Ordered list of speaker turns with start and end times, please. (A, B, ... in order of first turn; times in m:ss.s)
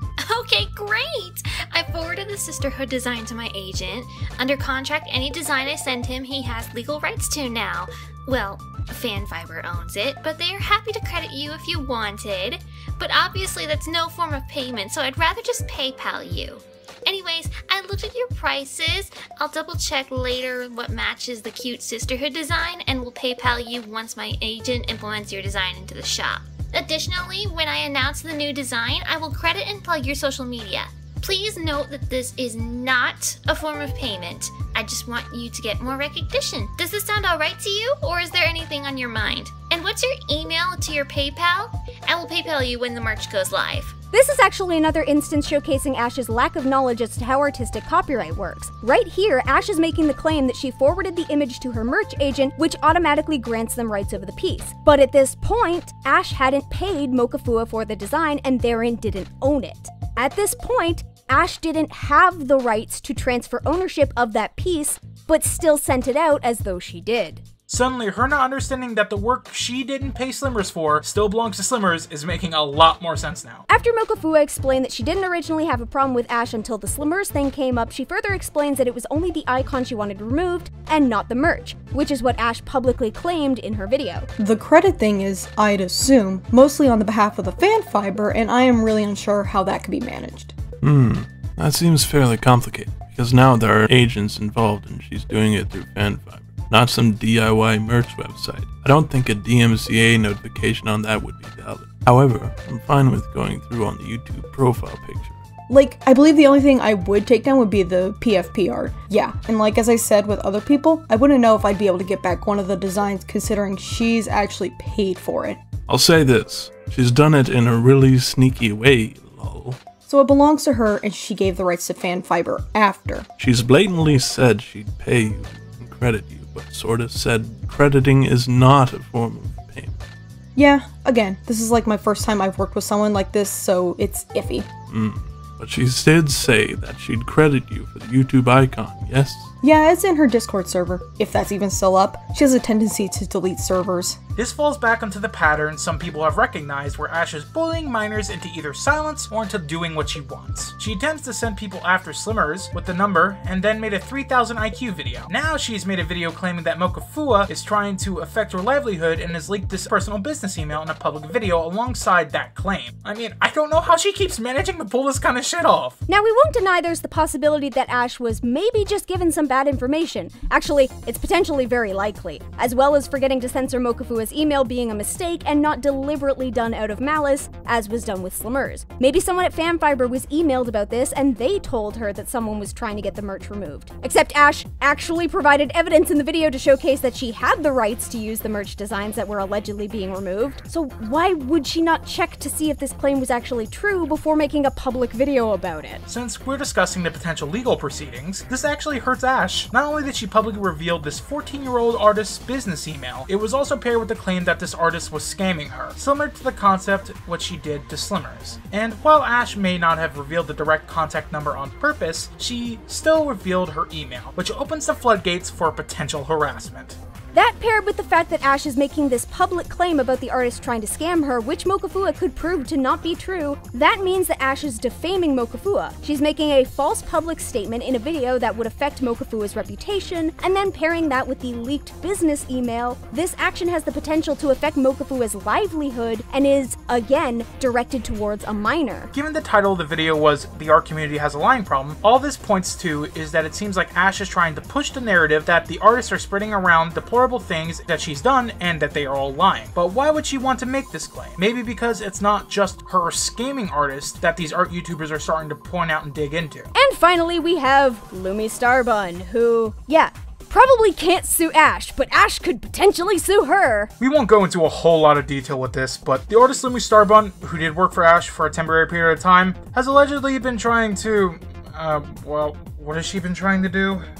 0:00.2-0:44.0 A
0:44.1-1:07.4 B
1:07.7-1:13.7 C
1:13.7-1:24.3 B
1:24.4-1:30.5 D
1:30.8-1:45.4 E
1:45.7-1:55.6 D
1:55.9-1:59.8 E
2:00.1-2:03.3 D
2:03.4-2:10.0 E
2:10.6-2:14.7 D
2:14.9-2:19.5 E
2:19.6-2:24.2 D
2:24.4-2:46.0 C
2:46.1-3:16.0 B
3:16.1-3:37.0 C
3:37.3-3:59.1 B
3:59.1-4:16.7 C
4:16.7-4:23.9 B
4:24.0-4:34.1 C